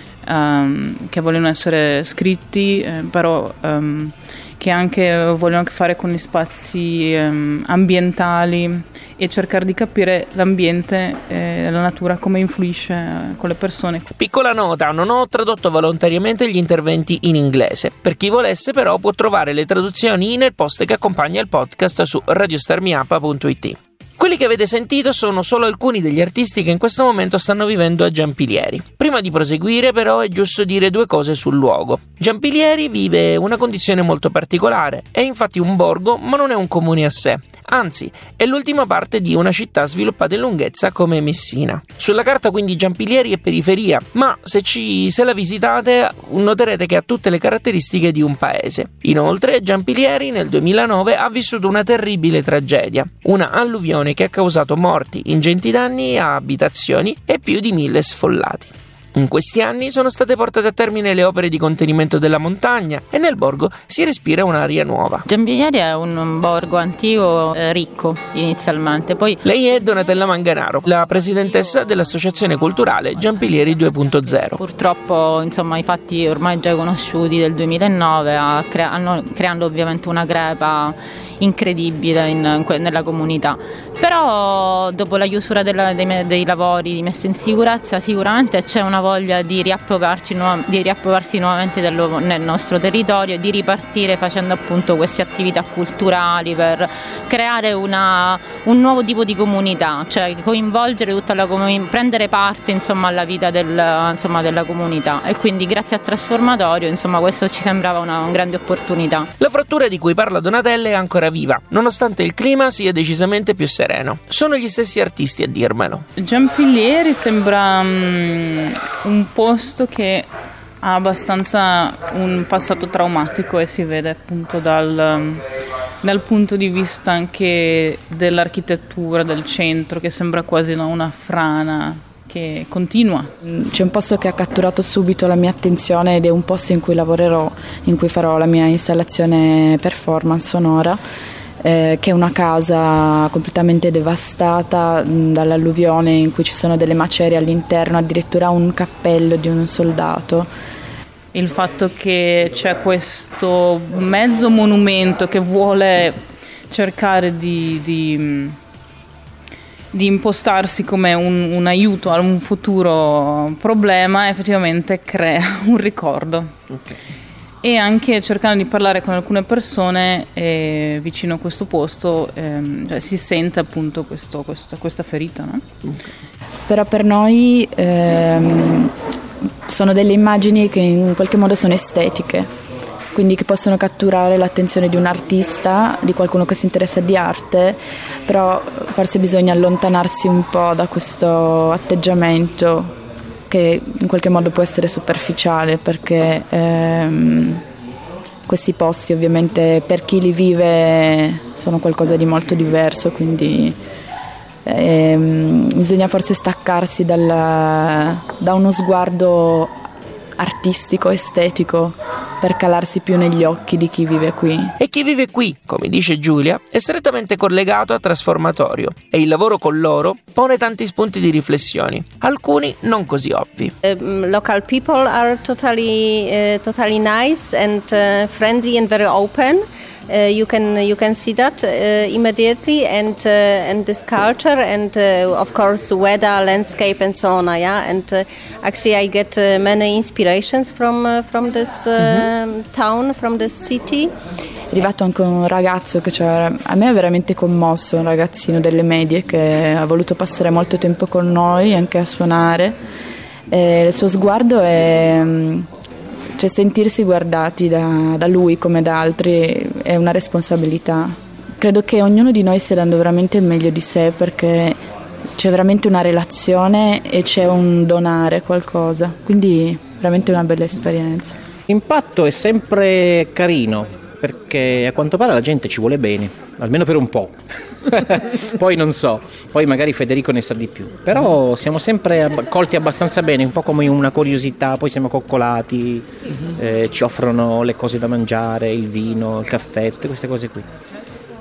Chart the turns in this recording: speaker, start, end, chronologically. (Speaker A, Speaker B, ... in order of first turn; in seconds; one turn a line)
Speaker A: 0.3-14.1
Speaker B: 14.2-65.3
Speaker C: 65.3-69.4
Speaker B: 69.4-74.6
Speaker C: 74.6-109.3
Speaker B: 109.4-116.1
Speaker A: 116.2-120.3
Speaker A: 120.8-125.5
Speaker A: 126.0-133.3
Speaker D: 133.4-141.0
Speaker D: 141.6-150.5
Speaker A: 151.3-156.2
Speaker A: 156.7-158.6
Speaker A: 159.9-166.5
Speaker A: 167.6-175.6
Speaker D: 176.7-178.9
Speaker D: 179.7-182.5
Speaker D: 183.1-192.9
Speaker D: 193.5-197.6
Speaker D: 198.5-203.8
Speaker D: 204.7-209.8
Speaker D: 210.4-214.7
Speaker B: 214.8-223.7
Speaker E: 223.8-244.1
Speaker D: 244.7-252.8
Speaker D: 253.5-255.7
Speaker D: 256.4-264.8
Speaker D: 265.4-271.4
Speaker F: 271.7-277.4
Speaker F: 277.9-290.7